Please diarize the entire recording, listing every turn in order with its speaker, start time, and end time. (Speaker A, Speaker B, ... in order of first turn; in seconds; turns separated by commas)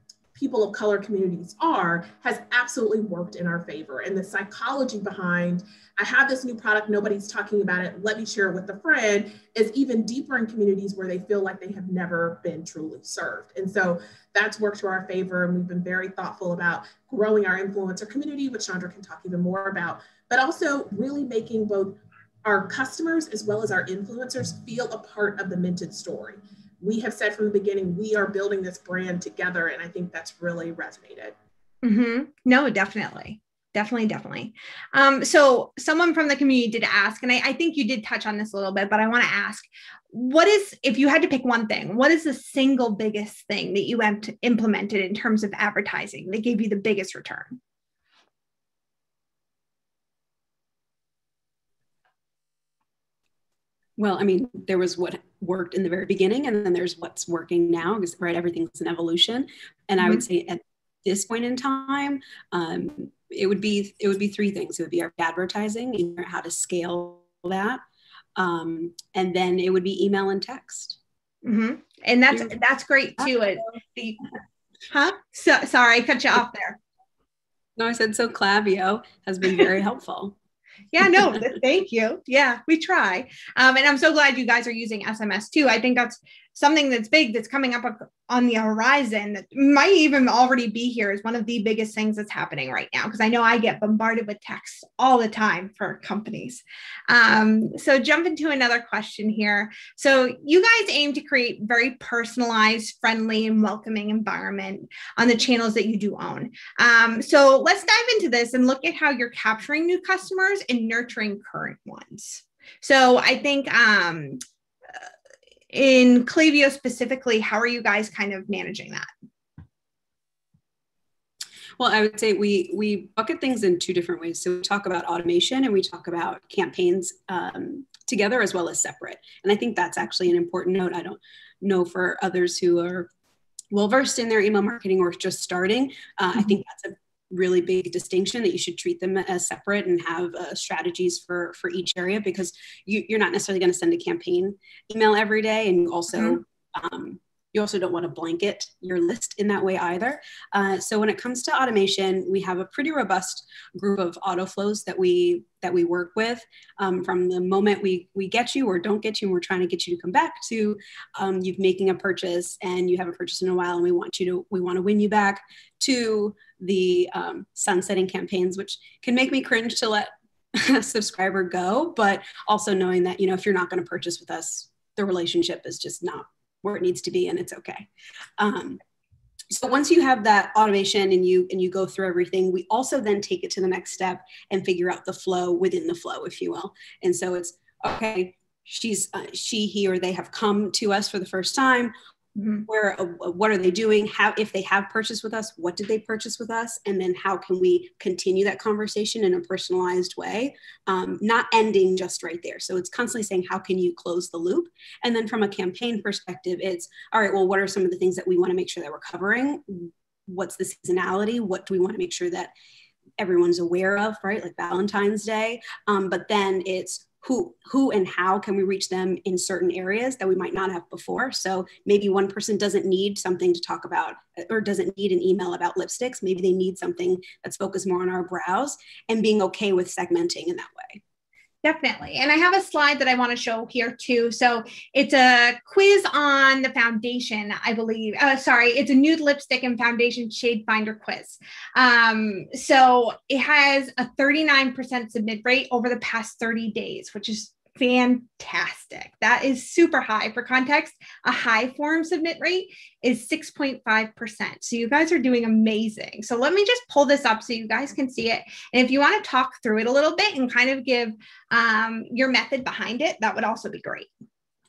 Speaker A: 0.3-31.4, Speaker B: 31.8-47.6, Speaker C: 54.0-67.8, Speaker C: 68.4-71.0, Speaker B: 71.5-74.2, Speaker B: 74.9-76.8, Speaker C: 77.8-80.3, Speaker B: 80.9-114.4, Speaker B: 115.7-119.1, Speaker C: 121.8-133.1, Speaker C: 133.7-177.9, Speaker C: 178.4-178.8, Speaker C: 179.5-191.9, Speaker B: 192.4-192.7, Speaker C: 192.7-212.5, Speaker C: 213.2-231.0, Speaker B: 231.6-264.1